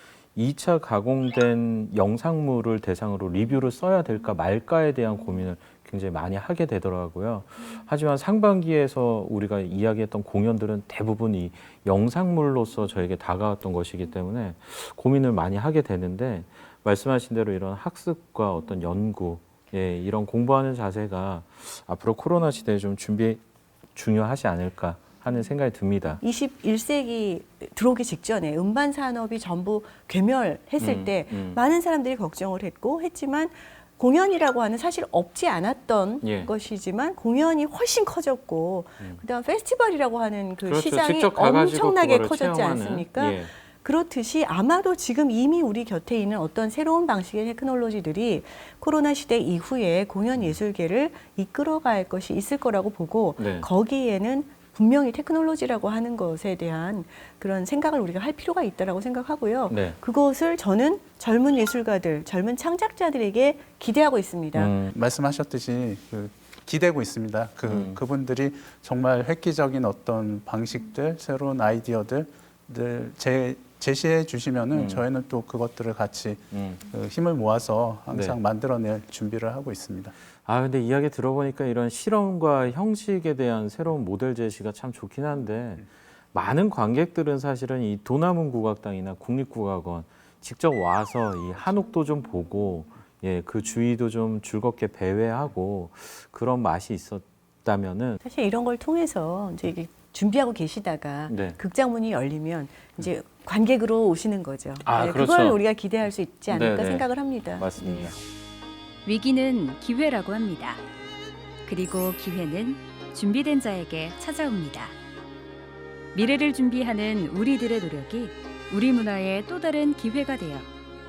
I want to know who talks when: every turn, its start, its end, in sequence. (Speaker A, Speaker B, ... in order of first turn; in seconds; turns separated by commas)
Speaker A: 0.3-23.4, Speaker A: 23.9-26.2, Speaker B: 26.2-64.7, Speaker A: 30.8-31.6, Speaker A: 36.2-36.5, Speaker A: 40.6-43.5, Speaker A: 53.4-53.7, Speaker A: 59.7-60.0, Speaker A: 64.5-64.9, Speaker C: 64.9-80.1, Speaker A: 67.7-68.0, Speaker A: 74.7-75.0, Speaker A: 76.5-76.8, Speaker A: 78.1-78.4, Speaker A: 80.4-98.2, Speaker B: 98.2-108.1, Speaker A: 101.3-101.6, Speaker A: 104.8-105.6, Speaker A: 106.5-108.2, Speaker D: 109.0-110.8, Speaker D: 111.7-114.9, Speaker D: 116.1-120.7